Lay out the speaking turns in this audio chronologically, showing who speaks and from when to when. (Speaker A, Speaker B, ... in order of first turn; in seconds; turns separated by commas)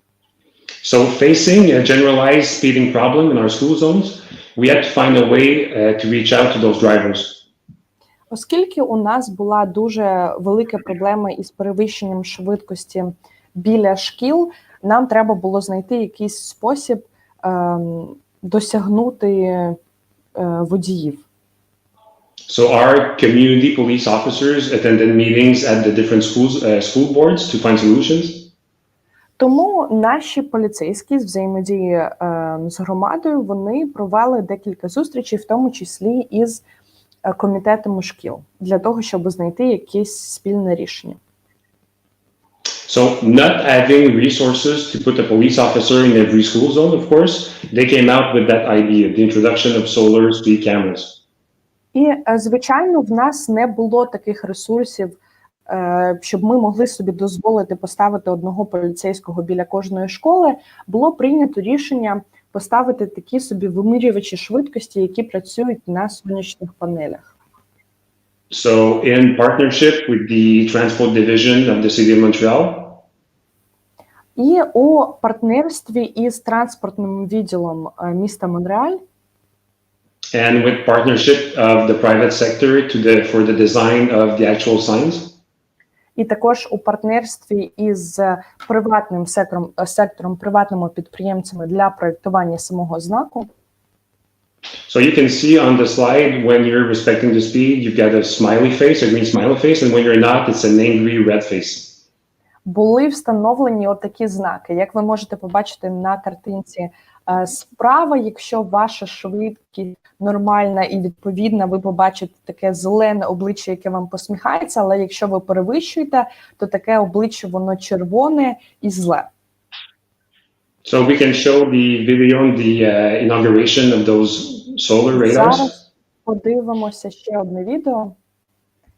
Speaker A: 0.8-7.5, Speaker B: 8.3-19.8, Speaker B: 20.4-21.2, Speaker A: 22.5-28.5, Speaker B: 29.4-36.6, Speaker B: 37.3-41.2, Speaker A: 42.9-51.2, Speaker B: 51.9-55.2, Speaker B: 55.7-67.3, Speaker A: 68.5-73.0, Speaker B: 74.4-79.0, Speaker A: 80.3-85.4, Speaker B: 86.2-93.5, Speaker A: 94.9-102.0, Speaker B: 102.7-119.3, Speaker A: 120.8-125.7, Speaker B: 125.1-128.2